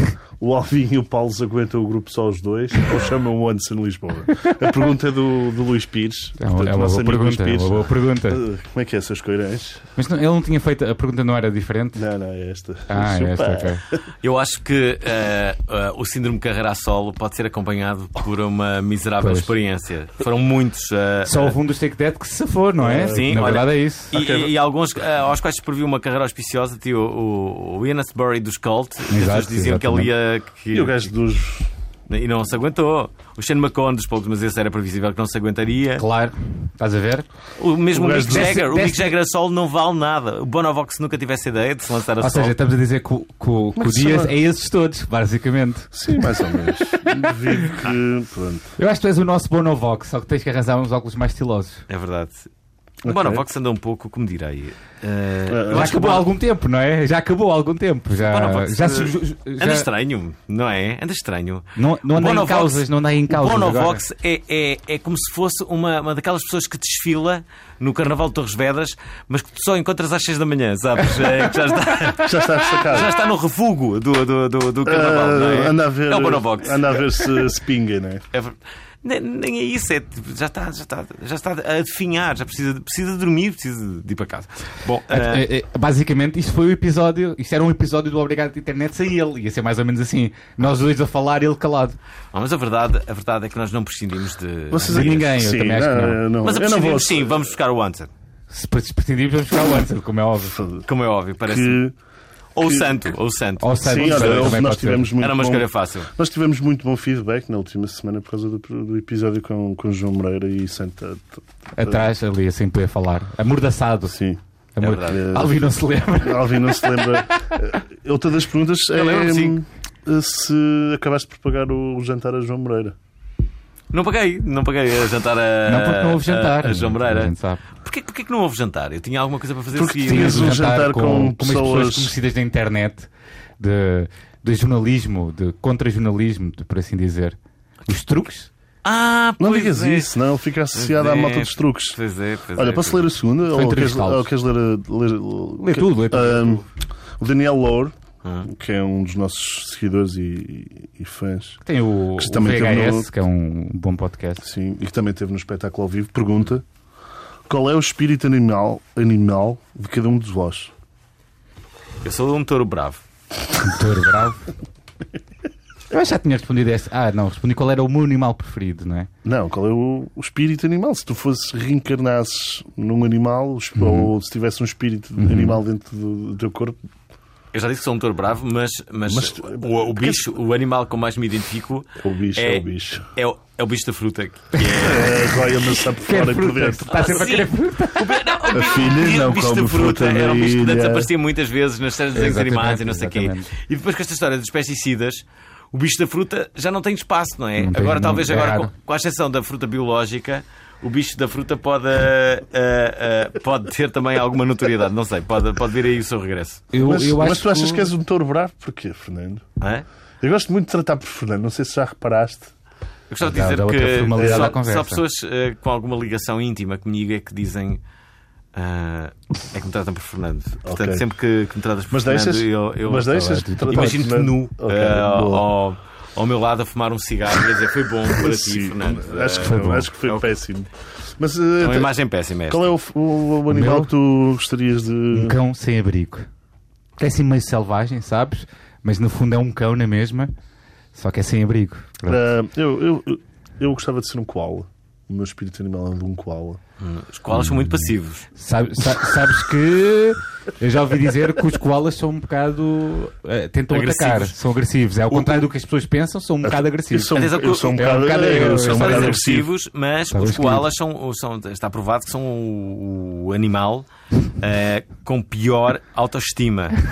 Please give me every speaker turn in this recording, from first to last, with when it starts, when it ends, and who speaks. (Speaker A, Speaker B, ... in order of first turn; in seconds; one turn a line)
Speaker A: 0.4-9.8
Speaker B: 6.4-8.4
Speaker B: 9.9-12.0
Speaker A: 11.9-14.0
Speaker B: 12.9-13.8
Speaker C: 14.2-21.6
Speaker B: 19.2-19.5
Speaker B: 21.3-24.1
Speaker A: 22.8-23.5
Speaker C: 23.0-31.1
Speaker A: 24.1-24.5
Speaker B: 29.1-30.1
Speaker A: 30.7-31.7
Speaker C: 32.1-36.0
Speaker B: 36.0-37.2
Speaker C: 37.6-42.5
Speaker A: 37.9-38.6
Speaker B: 38.3-39.0
Speaker B: 42.2-47.1
Speaker A: 43.8-44.4
Speaker A: 45.9-48.8
Speaker B: 48.8-51.8
Speaker C: 51.9-52.5
Speaker A: 53.0-53.4
Speaker C: 53.0-56.3
Speaker A: 55.5-55.9
Speaker B: 55.7-59.9
Speaker C: 58.1-77.5
Speaker B: 61.8-64.0
Speaker A: 72.2-73.1
Speaker A: 74.8-78.2
Speaker C: 78.3-85.5
Speaker B: 85.1-92.0
Speaker C: 92.3-95.3
Speaker A: 94.7-97.4
Speaker B: 94.9-96.2
Speaker C: 96.4-98.1
Speaker B: 98.5-100.5
Speaker A: 100.5-100.8
Speaker C: 100.8-101.8
Speaker A: 101.5-101.9
Speaker C: 102.5-104.6
Speaker A: 102.6-103.1
Speaker B: 103.6-105.1
Speaker A: 103.8-112.0
Speaker C: 105.2-106.1
Speaker B: 111.8-114.2
Speaker A: 114.1-114.4
Speaker B: 114.8-117.2
Speaker C: 114.8-115.2
Speaker A: 115.1-115.6
Speaker A: 116.2-123.0
Speaker C: 118.9-119.6
Speaker C: 123.9-130.6
Speaker B: 125.7-127.6
Speaker A: 129.7-132.1
Speaker B: 130.0-138.5
Speaker C: 138.8-140.1
Speaker A: 139.4-142.0
Speaker C: 140.7-143.1
Speaker A: 142.6-146.7
Speaker B: 143.5-144.3
Speaker B: 145.6-146.6
Speaker A: 147.2-151.6
Speaker B: 151.6-154.4
Speaker A: 152.2-153.1
Speaker A: 154.4-156.6
Speaker A: 157.5-160.7
Speaker C: 162.0-163.0
Speaker B: 163.6-164.4
Speaker B: 165.9-169.1
Speaker A: 169.2-176.8
Speaker B: 173.8-174.1
Speaker B: 175.2-175.6
Speaker C: 177.5-185.6
Speaker A: 179.1-180.2
Speaker A: 182.0-183.1
Speaker A: 184.8-187.1
Speaker B: 186.0-188.7
Speaker C: 186.9-206.7
Speaker A: 188.5-191.1
Speaker B: 192.1-193.5
Speaker B: 197.6-198.7
Speaker B: 206.7-207.9
Speaker A: 206.8-209.4
Speaker C: 209.6-209.8
Speaker A: 210.2-212.5
Speaker C: 213.1-217.8
Speaker B: 213.2-215.0
Speaker A: 214.2-214.5
Speaker C: 218.5-230.3
Speaker A: 220.6-221.0
Speaker A: 221.9-225.4
Speaker B: 223.1-224.0
Speaker A: 228.1-231.9
Speaker B: 229.4-229.9
Speaker C: 231.6-232.7
Speaker A: 232.5-235.3
Speaker B: 233.5-233.9
Speaker B: 235.1-236.3
Speaker B: 237.0-240.3
Speaker B: 240.9-242.2
Speaker A: 242.1-246.6
Speaker C: 246.8-248.3
Speaker B: 248.3-259.2
Speaker C: 253.7-254.3
Speaker A: 256.4-259.5
Speaker C: 257.1-263.9
Speaker B: 260.1-260.6
Speaker C: 264.4-266.8